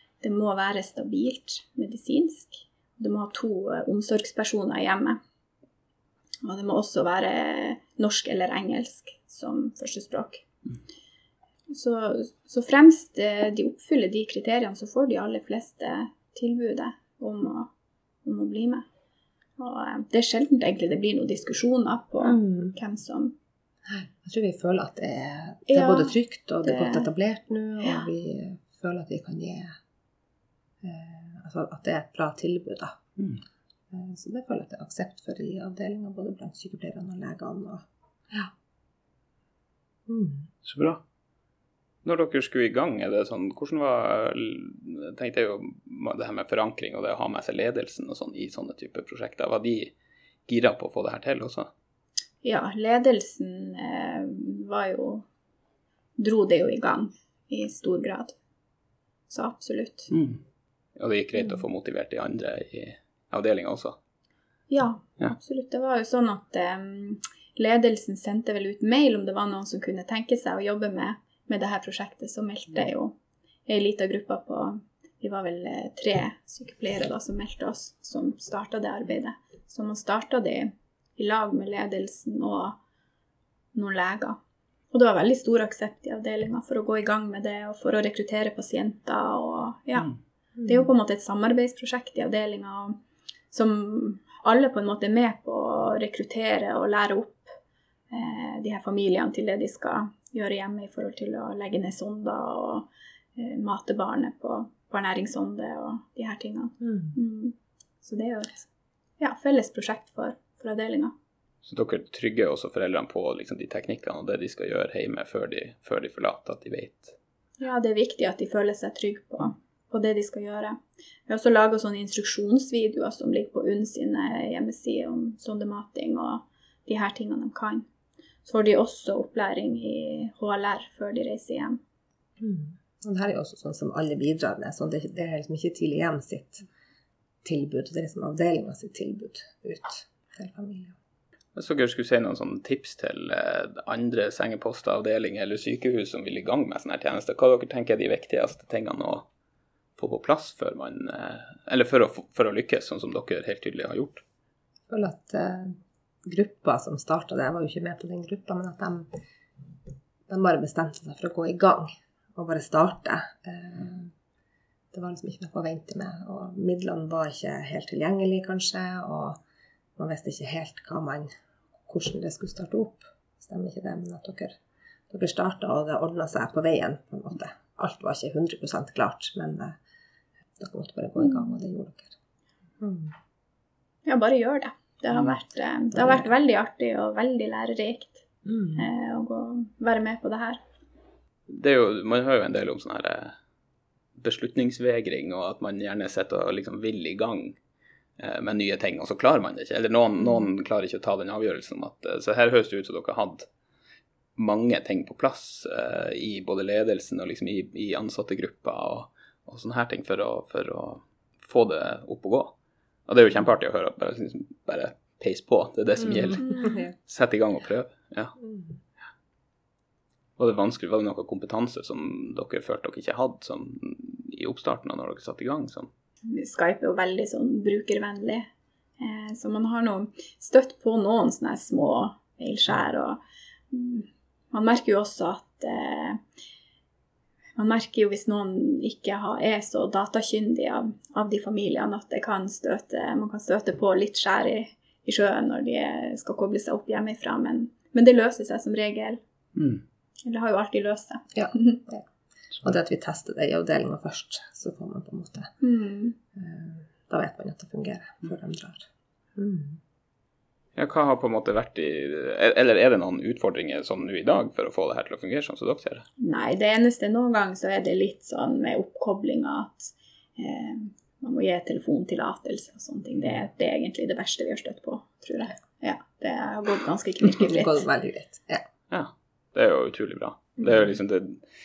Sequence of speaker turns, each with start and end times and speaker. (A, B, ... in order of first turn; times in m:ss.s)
0:00.2-0:05.2 A
0:06.4-0:10.4 A
0:11.7-0:17.7 A
0:18.2-0:18.8 A
0:19.6-0:23.3 A
0:22.2-0:22.7 B
0:23.8-0:29.7 B
0:25.7-0:27.1 A
0:30.8-0:33.0 B
0:33.9-0:38.5 B
0:40.1-0:40.5 B
0:40.6-0:41.0 C
0:42.0-0:49.9 C
0:50.5-0:51.7 C
0:52.4-0:55.2 A
0:56.2-0:58.3 A
0:59.3-1:00.1 A
1:00.1-1:00.4 C
1:01.0-1:04.0 C
1:04.7-1:13.1 A
1:13.7-1:22.8 A
1:23.7-1:24.4 A
1:24.9-1:33.0 A
1:30.6-1:30.9 B
1:33.5-1:37.5 A
1:38.1-1:48.6 A
1:46.8-1:47.1 B
1:49.2-1:51.1 A
1:51.6-1:57.2 C
1:57.6-2:07.9 A
2:08.4-2:11.8 A
2:12.4-2:16.6 B
2:17.4-2:21.0 B
2:21.5-2:29.3 C
2:30.0-2:34.2 C
2:34.9-2:39.1 B
2:40.3-2:44.1 B
2:44.9-2:49.4 B
2:50.0-2:51.3 B
2:51.8-2:54.5 B
2:55.1-2:59.8 B
3:00.6-3:02.1 B
3:02.8-3:03.1 B
3:04.0-3:08.2 A
3:05.9-3:06.3 B
3:08.4-3:08.8 B
3:08.8-3:10.6 A
3:11.5-3:13.3 C
3:14.2-3:17.6 C
3:18.2-3:23.5 C
3:24.4-3:32.6 C
3:33.1-3:38.4 C
3:36.0-3:36.8 B
3:36.4-3:36.8 A
3:38.4-3:38.7 B
3:40.4-3:45.9 C
3:46.2-3:48.4 A
3:49.0-3:53.2 A
3:53.7-3:56.2 A
3:57.6-4:09.2 A
4:09.6-4:09.8 C
4:10.2-4:11.8 A
4:11.3-4:12.0 B
4:12.6-4:15.5 B
4:15.6-4:16.2 A
4:16.3-4:19.8 B
4:20.8-4:26.0 C
4:26.2-4:37.8 A
4:37.4-4:38.6 B
4:38.9-4:41.4 C